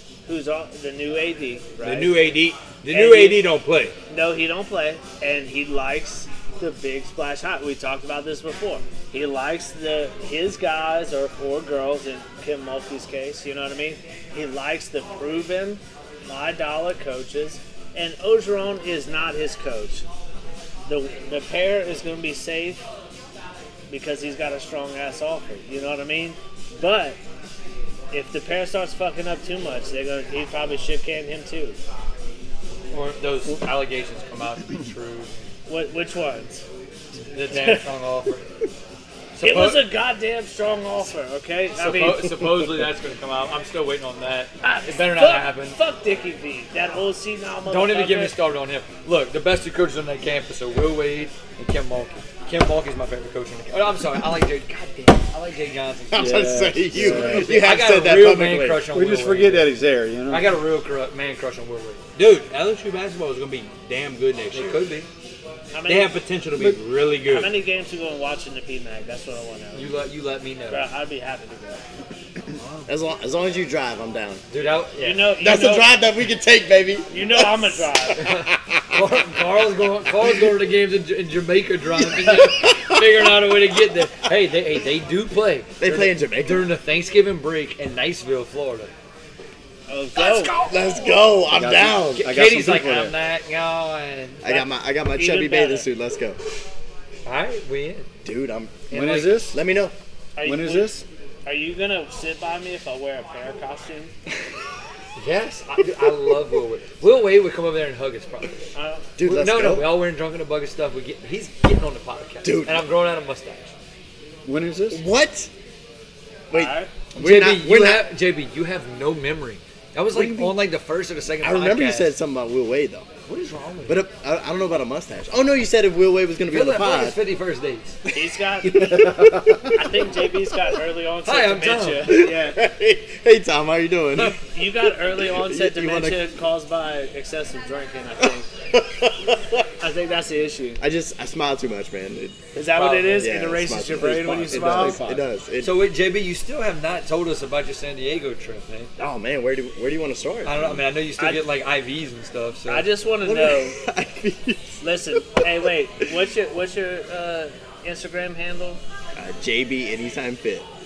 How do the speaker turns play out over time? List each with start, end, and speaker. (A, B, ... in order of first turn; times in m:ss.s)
0:00.3-0:03.5 A
0:01.8-0:03.9 B
0:04.1-0:20.0 A
0:20.8-0:22.8 A
0:23.9-0:27.2 A
0:28.1-0:31.8 A
0:32.9-0:35.5 C
0:35.7-0:36.6 A
0:37.2-0:38.5 C
0:37.5-0:37.8 A
0:39.3-0:39.9 C
0:39.4-0:42.4 A
0:41.7-0:45.8 C
0:44.6-0:48.3 A
0:47.6-0:59.7 C
0:56.1-0:58.8 D
0:56.2-0:57.6 E
0:58.8-1:00.6 E
1:00.3-1:02.0 C
1:02.2-1:04.8 B
1:04.5-1:05.1 C
1:05.7-1:06.1 A
1:05.8-1:07.6 B
1:07.2-1:10.0 A
1:09.7-1:10.9 C
1:10.7-1:11.8 A
1:12.6-1:12.9 C
1:12.9-1:14.4 D
1:14.5-1:15.3 C
1:15.0-1:15.9 A
1:15.4-1:19.0 D
1:17.1-1:18.2 A
1:18.1-1:28.9 C
1:22.0-1:23.2 D
1:25.8-1:26.7 D
1:29.9-1:30.6 A
1:30.1-1:31.2 C
1:30.6-1:32.3 D
1:31.5-1:33.1 E
1:32.2-1:34.7 C
1:34.4-1:36.4 D
1:35.2-1:35.9 A
1:37.2-1:38.1 C
1:38.2-1:38.9 D
1:38.9-1:39.5 C
1:38.9-1:39.6 E
1:39.5-1:39.9 D
1:40.4-1:44.1 A
1:40.4-1:41.0 E
1:45.2-1:48.6 C
1:48.7-1:49.1 A
1:49.2-1:49.9 D
1:49.2-1:53.7 C
1:52.4-1:52.8 D
1:54.4-1:55.0 E
1:54.9-1:55.5 D
1:56.5-1:58.0 D
1:56.5-1:56.9 A
1:57.1-2:02.1 C
2:00.1-2:00.4 D
2:01.4-2:03.1 D
2:03.3-2:04.0 C
2:03.8-2:07.2 D
2:06.5-2:08.0 C
2:08.1-2:08.9 A
2:08.1-2:09.3 D
2:08.9-2:09.6 E
2:09.7-2:12.6 A
2:11.2-2:12.2 C
2:12.0-2:14.4 D
2:14.4-2:18.5 A
2:15.1-2:16.2 D
2:18.7-2:19.6 D
2:19.8-2:20.8 A
2:20.8-2:22.4 D
2:22.5-2:25.0 A
2:22.7-2:23.3 C
2:23.1-2:25.8 D
2:24.1-2:25.2 E
2:25.6-2:28.9 C
2:29.0-2:30.8 D
2:30.4-2:32.9 C
2:31.2-2:31.4 A
2:32.7-2:33.8 A
2:33.2-2:35.4 D
2:34.8-2:38.8 A
2:39.2-2:40.7 D